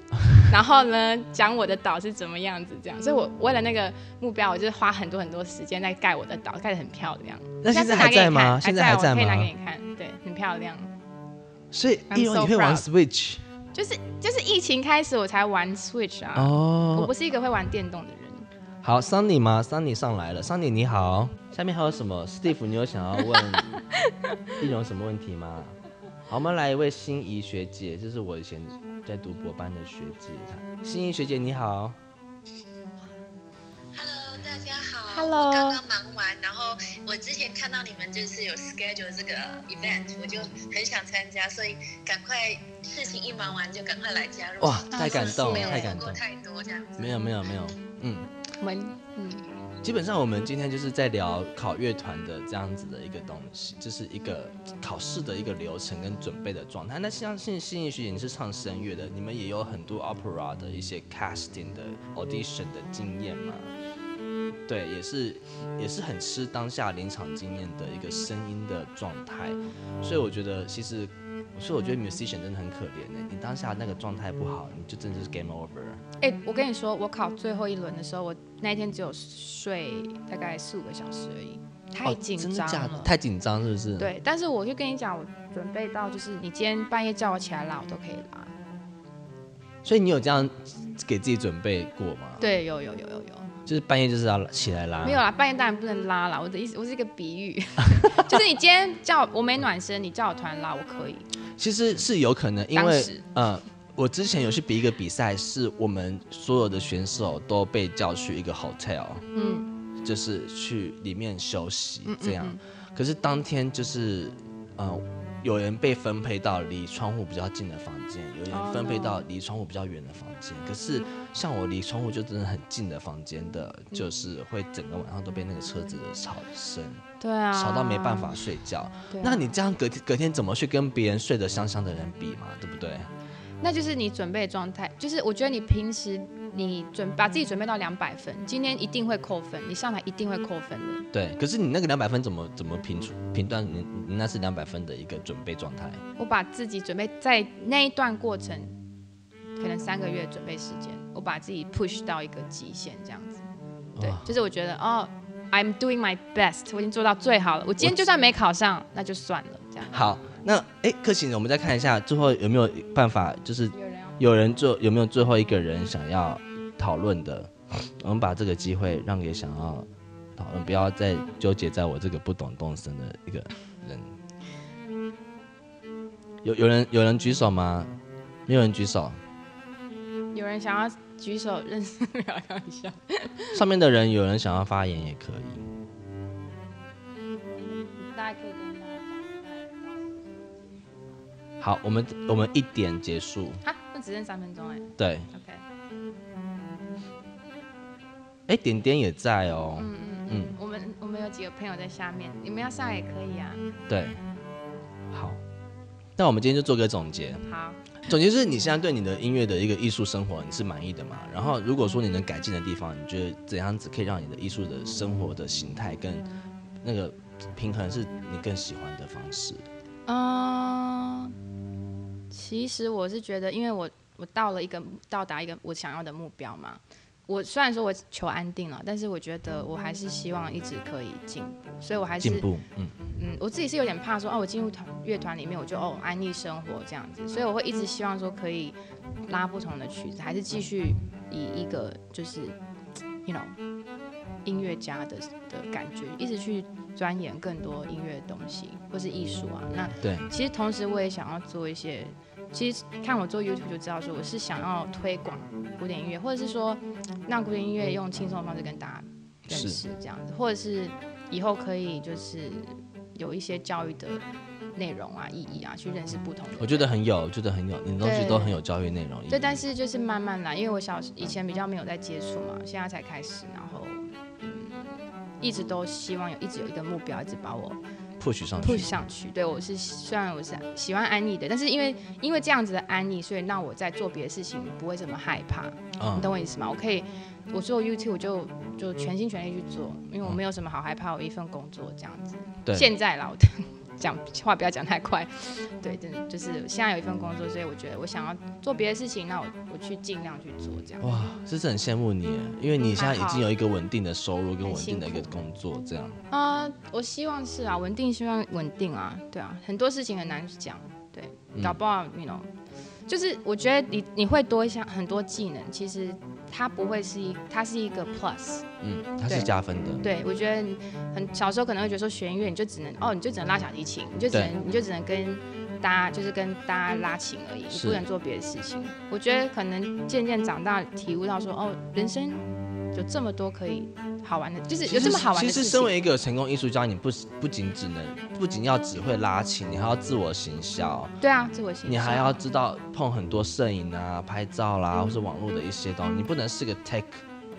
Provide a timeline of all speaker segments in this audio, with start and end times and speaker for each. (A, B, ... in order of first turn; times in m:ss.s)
0:00.3-0:10.9 A
0:07.6-0:09.5 B
0:11.7-0:13.4 B
0:12.1-0:12.8 A
0:13.7-0:18.5 A
0:16.3-0:17.1 B
0:18.8-0:23.8 B
0:23.3-0:24.5 A
0:24.6-0:25.8 B
0:26.3-0:32.0 B
0:33.9-0:47.2 C
0:35.1-0:35.8 A
0:44.6-0:46.2 B
0:44.9-0:45.9 A
0:47.0-0:48.3 B
0:48.6-0:49.4 A
0:49.8-1:03.7 B
1:04.7-1:16.0 B
1:16.2-1:23.1 A
1:22.0-1:24.1 B
1:24.0-1:28.5 A
1:29.8-1:32.4 B
1:32.4-1:33.5 A
1:33.6-1:35.2 B
1:35.0-1:41.3 A
1:37.9-1:38.2 B
1:41.6-1:49.2 B
1:42.7-1:43.2 A
1:49.3-1:49.7 A
1:50.0-2:13.1 B
1:52.0-1:52.6 A
1:58.5-1:59.2 A
2:07.2-2:08.3 A
2:09.1-2:09.5 A
2:13.6-2:21.1 A
2:21.1-2:26.0 B
2:26.2-2:28.8 A
2:29.6-2:33.4 A
2:33.9-2:34.3 B
2:34.0-2:40.0 A
2:39.9-2:54.2 B
2:43.7-2:44.2 A
2:56.4-2:57.9 B
2:58.5-2:59.2 B
3:00.3-3:03.5 A
3:03.5-3:05.6 B
3:07.7-3:11.1 A
3:11.6-3:13.6 B
3:13.6-3:15.6 A
3:15.0-3:15.3 B
3:18.5-3:20.5 B
3:19.7-3:23.6 A
3:23.9-3:24.2 B
3:25.1-3:25.4 B
3:26.2-3:27.4 B
3:27.5-3:27.8 A
3:28.0-3:36.2 B
3:36.8-3:39.7 B
3:40.1-3:41.3 A
3:42.3-3:52.5 A
3:52.2-3:53.0 B
3:53.1-3:58.8 A
3:59.3-4:02.6 A
4:03.2-4:03.6 A
4:04.4-4:24.2 A
4:10.0-4:10.3 B
4:19.5-4:19.8 B
4:24.8-4:26.9 A
4:26.6-4:29.6 B
4:28.0-4:28.6 A
4:29.3-4:37.8 A
4:38.2-4:39.0 B
4:38.5-5:01.1 A
4:46.0-4:46.3 B
4:52.6-4:52.9 B
5:01.0-5:06.2 B
5:02.9-5:03.4 A
5:04.6-5:05.4 A
5:06.3-5:12.5 A
5:13.1-5:18.7 A
5:18.8-5:20.0 B
5:20.0-5:35.9 A
5:27.7-5:28.0 B
5:34.9-5:41.1 B
5:41.2-5:42.4 A
5:41.8-5:47.2 B